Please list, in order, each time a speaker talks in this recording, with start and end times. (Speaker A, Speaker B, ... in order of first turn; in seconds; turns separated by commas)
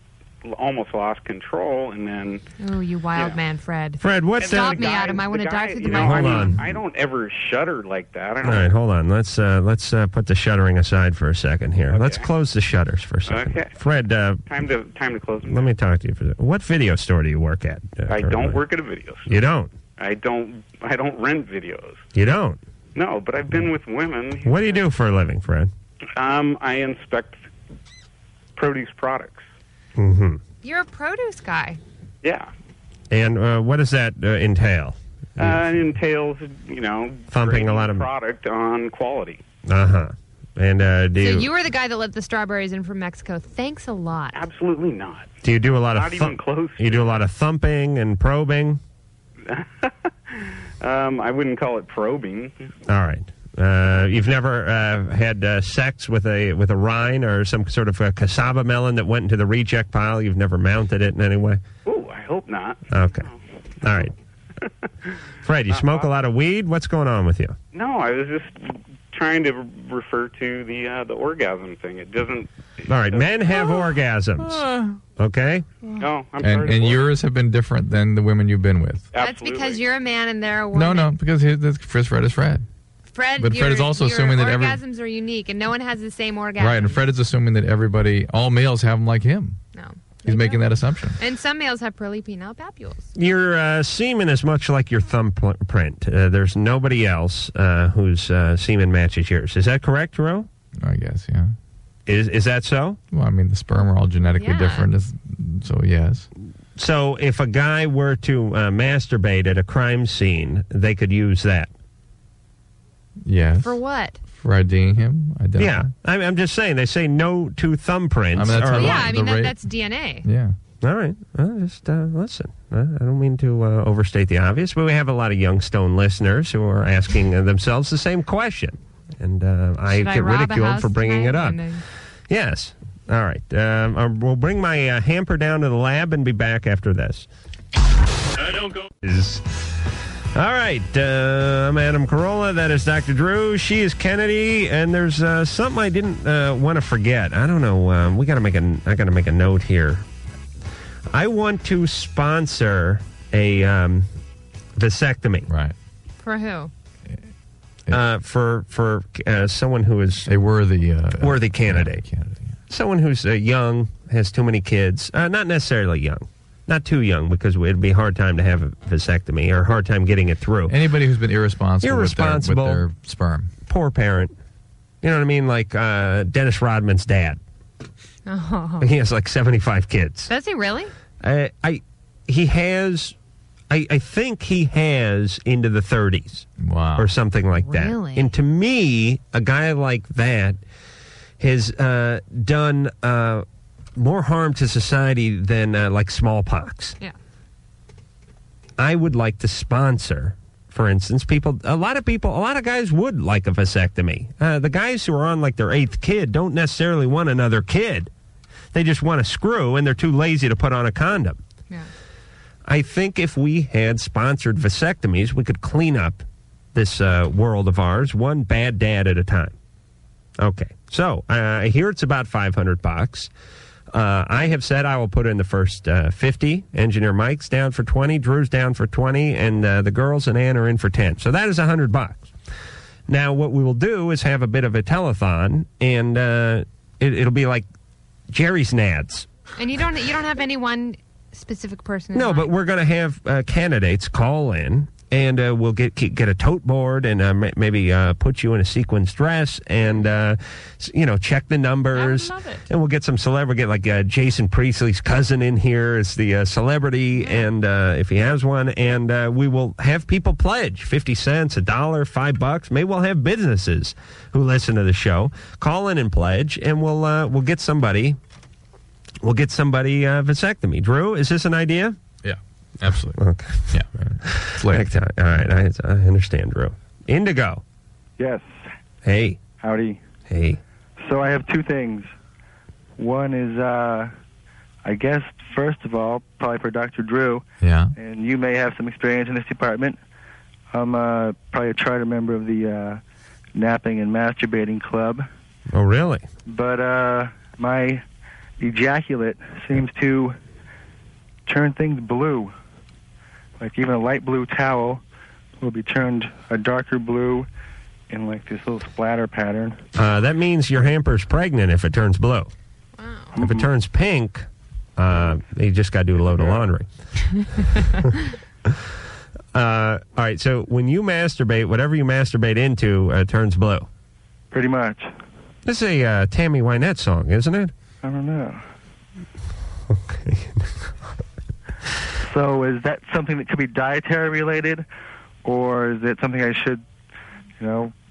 Speaker A: 0.4-2.4, Speaker B: 2.6-6.6, Speaker C: 4.0-4.8, Speaker A: 4.4-8.7, Speaker C: 5.8-6.8, Speaker C: 8.4-14.4, Speaker A: 11.9-12.2, Speaker A: 13.3-13.7, Speaker A: 14.5-15.7, Speaker C: 15.4-18.6, Speaker A: 18.1-19.3, Speaker C: 19.2-19.7, Speaker A: 20.0-22.1, Speaker C: 22.1-22.6, Speaker A: 22.9-24.9, Speaker C: 24.4-25.7, Speaker A: 26.2-27.5, Speaker A: 28.6-29.4, Speaker C: 30.0-30.4, Speaker B: 30.6-31.8, Speaker A: 32.2-32.5, Speaker C: 33.1-35.6, Speaker A: 35.4-39.4, Speaker C: 37.3-38.1, Speaker C: 39.6-41.5, Speaker B: 41.2-44.4, Speaker A: 44.3-45.3, Speaker C: 45.4-48.8, Speaker A: 45.9-47.2, Speaker A: 49.5-52.7, Speaker C: 52.9-61.6, Speaker A: 61.9-64.1, Speaker C: 62.9-63.3, Speaker C: 63.8-64.1, Speaker A: 64.6-65.1, Speaker C: 65.4-67.5, Speaker A: 65.7-66.1, Speaker A: 67.7-73.3, Speaker C: 72.9-74.6, Speaker C: 75.2-75.6, Speaker A: 76.0-77.1, Speaker D: 76.4-79.1, Speaker A: 79.1-79.8, Speaker B: 79.2-81.1, Speaker D: 80.7-82.6, Speaker B: 83.1-87.0, Speaker D: 83.4-84.8, Speaker D: 86.6-89.6, Speaker B: 89.7-93.1, Speaker D: 90.2-91.2, Speaker C: 93.1-100.5, Speaker D: 100.8-101.5, Speaker C: 102.1-103.0, Speaker D: 103.1-106.3, Speaker B: 104.4-104.9, Speaker C: 106.8-111.7, Speaker D: 113.2-113.8, Speaker B: 113.6-114.2, Speaker D: 114.3-115.9, Speaker C: 115.6-119.1, Speaker D: 118.3-119.6, Speaker B: 118.7-120.2, Speaker D: 120.2-120.5, Speaker C: 120.8-131.6, Speaker B: 129.9-131.8, Speaker C: 132.3-137.3, Speaker C: 139.0-139.4, Speaker C: 140.3-150.0, Speaker C: 151.1-154.1, Speaker C: 154.8-155.5, Speaker D: 155.5-155.7, Speaker B: 156.2-156.7, Speaker C: 157.9-160.3, Speaker D: 160.2-162.6, Speaker C: 161.2-162.0, Speaker C: 162.7-170.7, Speaker D: 170.7-173.5, Speaker C: 171.8-172.8, Speaker C: 173.7-174.3, Speaker C: 175.0-177.4, Speaker B: 178.3-178.9, Speaker C: 178.8-180.3, Speaker B: 180.3-180.9, Speaker C: 181.2-183.1, Speaker C: 183.7-190.6, Speaker D: 186.6-187.1, Speaker B: 187.6-188.3, Speaker C: 191.4-193.4, Speaker C: 193.9-196.9, Speaker C: 198.8-208.1, Speaker C: 208.7-211.4, Speaker C: 212.7-216.2, Speaker C: 216.7-219.5, Speaker C: 220.4-223.3, Speaker C: 223.9-232.3, Speaker C: 233.1-237.7, Speaker C: 238.3-239.3, Speaker B: 239.6-242.5, Speaker C: 242.1-268.2, Speaker B: 251.9-252.7, Speaker B: 257.2-257.5, Speaker C: 269.2-271.9, Speaker D: 272.2-274.9, Speaker C: 273.2-277.6, Speaker E: 278.2-278.6, Speaker C: 279.0-279.4, Speaker E: 279.6-280.0, Speaker C: 280.3-280.6, Speaker E: 281.0-282.1, Speaker E: 283.0-284.1, Speaker E: 284.8-287.4, Speaker D: 287.6-287.9, Speaker E: 287.9-290.0, Speaker E: 290.7-293.0, Speaker E: 293.5-295.2, Speaker C: 295.7-296.2, Speaker E: 296.4-298.0, Speaker E: 298.6-300.3, Speaker E: 301.5-302.5, Speaker E: 303.6-305.0, Speaker E: 305.6-307.5, Speaker E: 308.1-309.8, Speaker C: 309.9-312.5, Speaker B: 313.0-313.3, Speaker E: 313.3-313.7, Speaker C: 313.4-314.4, Speaker C: 315.0-316.9, Speaker E: 316.2-316.7, Speaker C: 317.4-318.0, Speaker C: 319.5-323.9, Speaker E: 324.5-325.1, Speaker C: 325.6-327.7, Speaker E: 328.0-328.6, Speaker C: 329.9-330.9, Speaker E: 332.2-334.8, Speaker E: 335.4-336.8, Speaker E: 337.6-337.9